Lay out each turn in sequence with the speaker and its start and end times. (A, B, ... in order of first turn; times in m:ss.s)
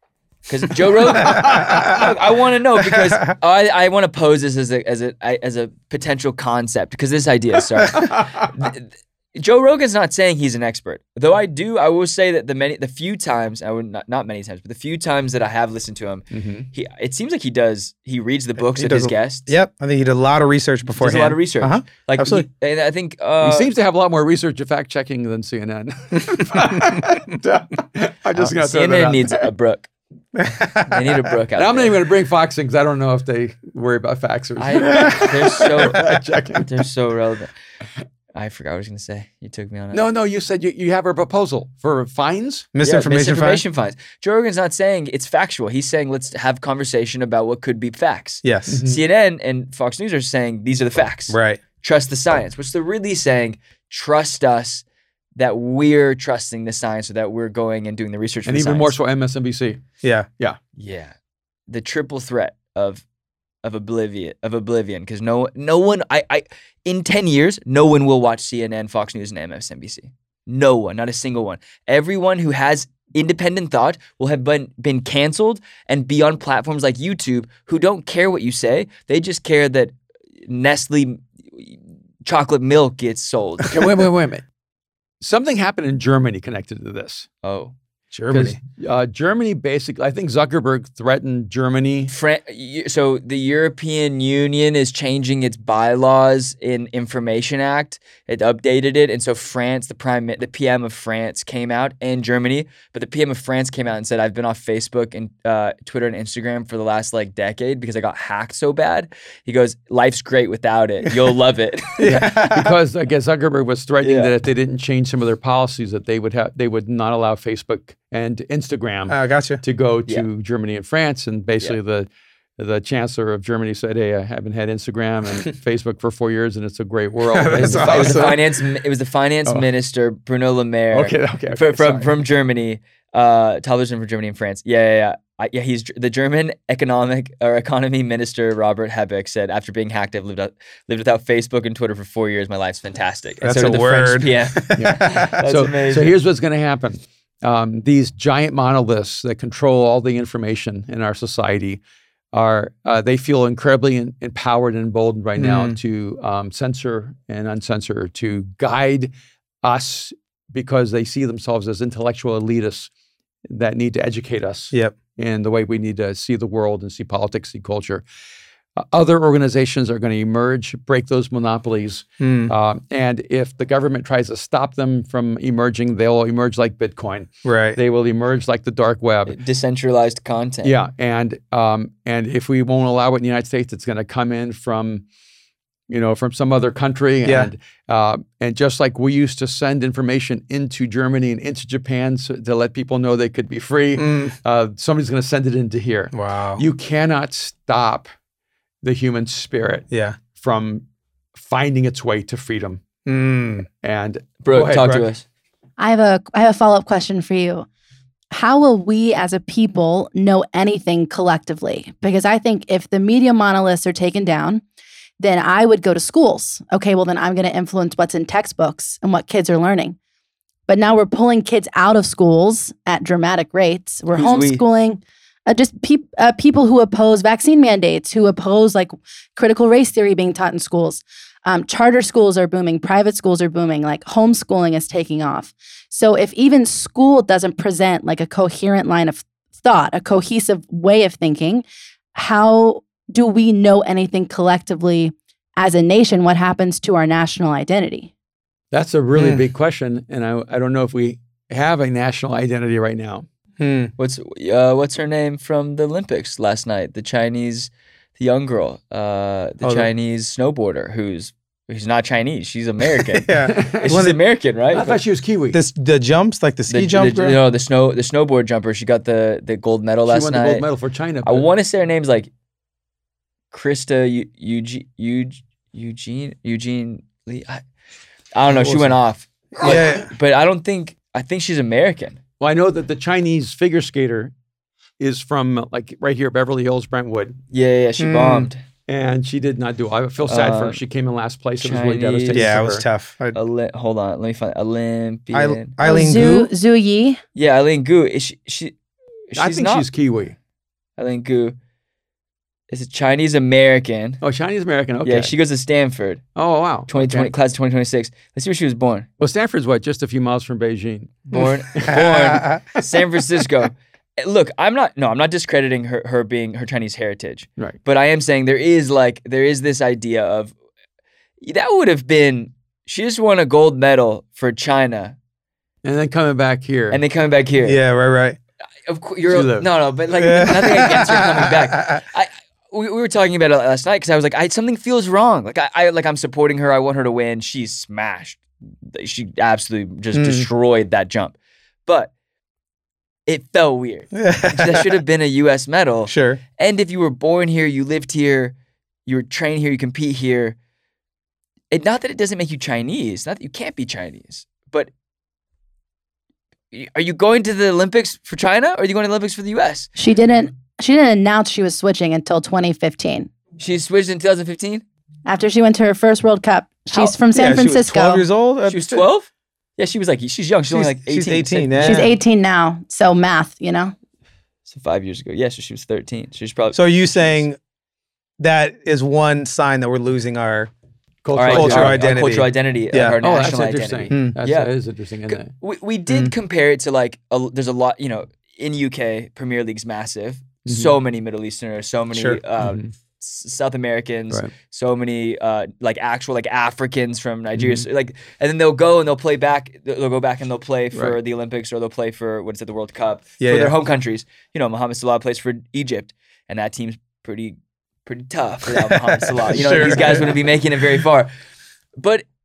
0:00.5-0:19.5 A
0:01.3-0:01.9 B
0:08.0-0:08.3 B
0:16.3-0:16.7 B
0:18.6-0:22.4 C
0:20.9-0:23.7 A
0:23.4-0:29.4 B
0:26.3-0:27.1 C
0:28.3-0:29.9 A
0:30.4-0:30.9 C
0:30.8-0:32.0 A
0:31.5-0:36.8 B
0:34.6-0:37.5 A
0:38.3-0:40.0 A
0:39.9-0:42.7 B
0:42.7-0:43.6 C
0:42.8-0:54.8 A
0:48.4-0:48.8 C
0:48.7-0:49.0 B
0:51.3-0:51.6 C
0:55.4-0:58.9 A
0:58.4-0:59.8 B
1:00.0-1:00.3 C
1:00.8-1:01.1 A
1:01.7-1:03.0 A
1:03.6-1:19.9 A
1:20.4-1:23.8 A
1:23.7-1:24.4 B
1:25.2-1:27.3 B
1:27.4-1:27.7 A
1:28.1-1:28.6 C
1:28.3-1:32.1 B
1:32.1-1:52.2 A
1:52.0-1:52.8 C
1:52.0-2:08.4 B
1:54.0-1:54.3 A
1:59.1-1:59.6 C
2:07.3-2:08.4 C
2:07.6-2:26.2 A
2:10.9-2:12.1 B
2:23.4-2:25.3 C
2:24.8-2:31.8 B
2:32.3-2:39.1 B
2:35.4-2:35.8 C
2:39.6-2:42.9 B
2:43.5-2:48.0 B
2:48.8-2:59.4 B
2:52.2-2:52.5 C
2:57.4-2:57.8 C
2:59.3-3:00.7 A
3:00.6-3:05.0 B
3:05.9-3:18.1 B
3:07.2-3:07.5 C
3:14.0-3:14.3 C
3:16.1-3:16.6 C
3:18.8-3:22.8 B
3:19.9-3:20.2 C
3:23.0-3:23.7 C
3:23.8-3:25.0 B
3:24.4-3:25.2 A
3:25.8-3:27.6 D
3:28.3-3:34.6 D
3:35.2-3:40.0 D
3:40.7-4:08.1 D
3:44.1-3:44.6 A
4:08.7-4:13.2 B
4:09.2-4:09.4 C
4:13.6-4:13.9 C
4:14.0-4:25.0 A
4:19.6-4:19.9 C
4:23.2-4:24.2 C
4:23.4-4:24.1 B
4:24.7-4:25.6 B
4:25.5-4:27.4 C
4:26.7-4:30.6 A
4:30.1-4:31.5 B
4:31.2-4:32.3 A
4:33.5-4:37.6 A
4:38.3-4:42.2 A
4:38.5-4:39.0 B
4:39.6-4:40.1 C
4:42.4-4:44.3 B
4:45.0-4:47.4 B
4:47.5-4:48.6 A
4:48.0-4:48.5 C
4:48.9-4:52.8 B
4:50.2-4:50.8 A
4:51.6-4:52.6 A
4:52.3-4:53.4 C
4:53.3-4:55.7 A
4:55.3-4:56.5 C
4:55.8-4:57.2 D
4:57.3-4:58.7 A
4:59.3-4:59.9 A
4:59.4-5:00.3 B
5:01.0-5:01.6 A
5:02.7-5:04.2 A
5:04.2-5:05.3 B
5:05.0-5:06.2 A
5:06.3-5:07.3 B
5:06.9-5:09.1 A
5:09.2-5:12.1 B
5:11.3-5:20.5 A
5:11.9-5:12.6 C
5:21.4-5:25.2 A
5:25.8-5:27.0 B
5:26.9-5:27.8 A
5:27.6-5:28.4 C
5:28.9-5:41.3 A
5:29.3-5:29.7 B
5:30.2-5:32.0 C
5:40.1-5:40.5 C
5:41.8-5:42.1 A
5:43.3-5:48.5 A
5:44.2-5:44.9 C
5:46.1-5:46.4 C
5:49.0-5:50.6 A
5:51.7-5:54.9 A
5:56.7-5:59.9 A
6:00.0-6:03.3 D
6:03.6-6:04.8 A
6:05.2-6:08.2 D
6:07.3-6:09.0 C
6:08.6-6:12.1 A
6:10.7-6:12.1 C
6:11.8-6:13.9 D
6:14.7-6:17.4 A
6:16.7-6:17.6 C
6:18.4-6:20.7 C
6:21.2-6:22.1 B
6:21.3-6:24.7 A
6:21.4-6:23.2 C
6:23.2-6:25.5 B
6:24.1-6:24.4 C
6:25.3-6:51.3 A
6:30.6-6:30.9 B
6:32.1-6:32.4 C
6:32.6-6:32.9 B
6:37.6-6:37.8 B
6:43.4-6:43.7 C
6:49.4-6:50.3 C
6:49.6-6:50.2 B
6:52.0-6:52.2 A